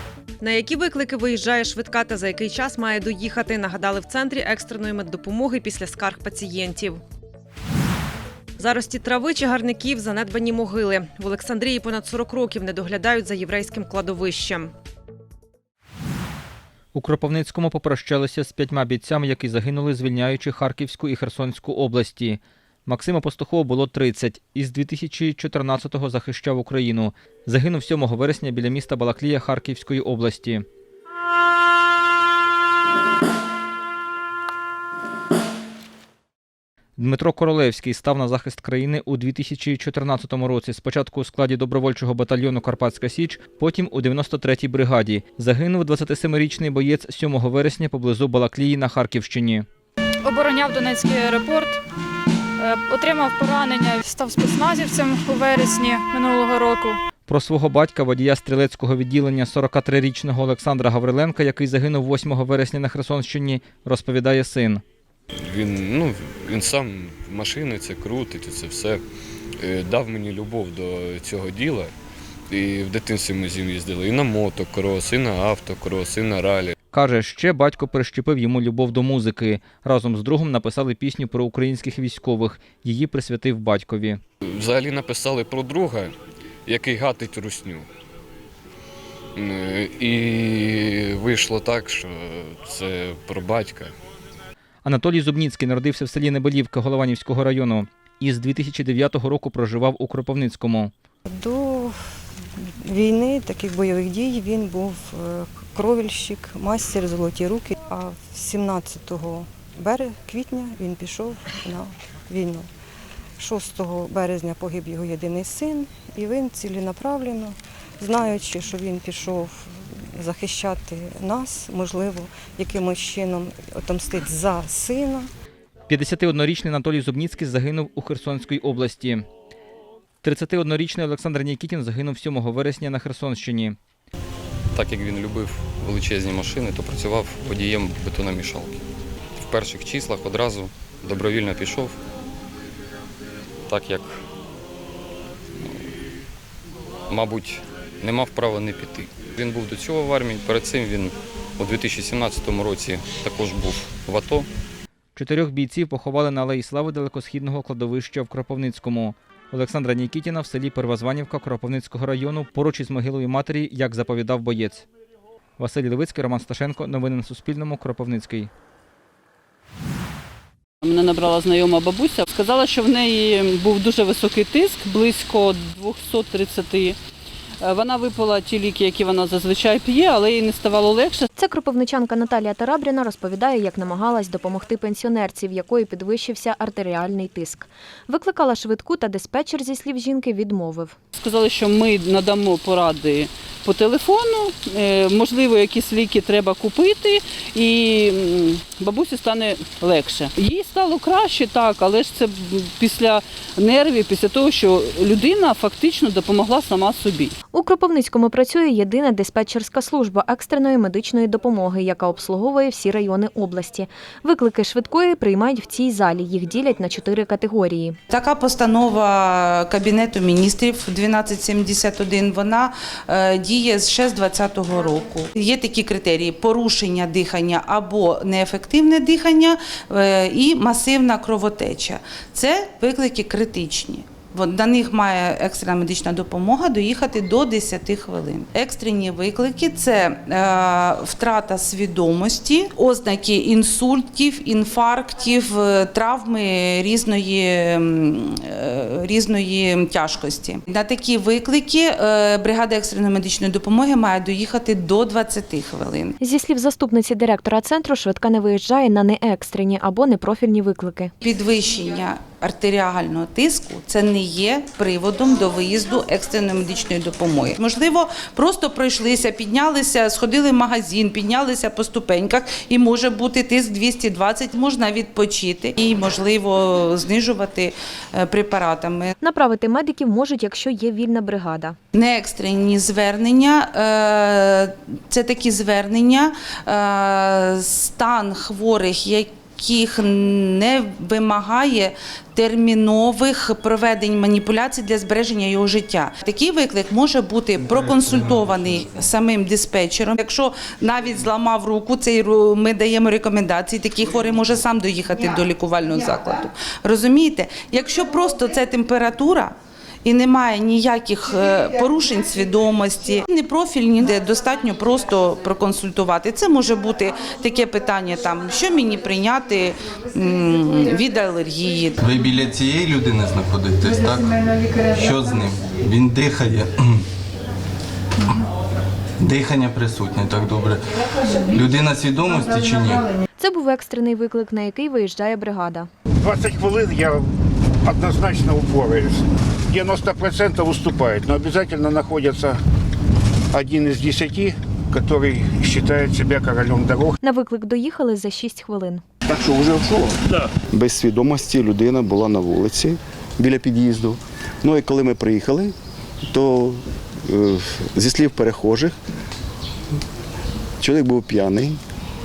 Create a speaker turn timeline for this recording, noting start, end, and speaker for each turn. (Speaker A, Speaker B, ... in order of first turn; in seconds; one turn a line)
Speaker A: 0.4-7.0
Speaker A: 8.6-14.7
Speaker B: 16.9-30.6
Speaker B: 37.0-49.7
Speaker C: 50.2-51.8
Speaker C: 52.6-57.0
Speaker B: 57.3-64.8
Speaker D: 65.5-69.0
Speaker D: 69.6-71.9
Speaker D: 72.5-76.7
Speaker B: 76.9-84.2
Speaker D: 84.5-86.1
Speaker D: 86.7-87.9
Speaker D: 89.4-93.9
Speaker B: 94.8-100.9
Speaker E: 101.3-102.0
Speaker E: 102.9-112.7
Speaker E: 113.4-125.3
Speaker B: 125.9-129.3
Speaker B: 130.2-133.8
Speaker F: 134.8-138.8
Speaker F: 139.4-142.0
Speaker F: 143.7-144.2
Speaker F: 147.1-154.5
Speaker B: 155.2-164.8
Speaker B: 165.6-168.5
Speaker G: 170.8-177.0
Speaker G: 177.6-181.3
Speaker H: 181.4-190.9
Speaker G: 191.2-207.3
Speaker H: 207.5-218.0
Speaker I: 218.1-256.2
Speaker H: 256.2-261.1
Speaker I: 261.2-279.1
Speaker H: 279.2-281.8
Speaker I: 281.9-322.0
Speaker J: 322.0-326.9
Speaker J: 329.2-333.1
Speaker H: 333.4-335.9
Speaker K: 336.2-337.2
Speaker K: 337.9-339.2
Speaker K: 339.7-342.5
Speaker K: 343.5-347.1
Speaker H: 347.2-349.0
Speaker L: 349.3-350.2
Speaker L: 350.7-355.7
Speaker L: 356.3-359.0
Speaker L: 360.8-361.8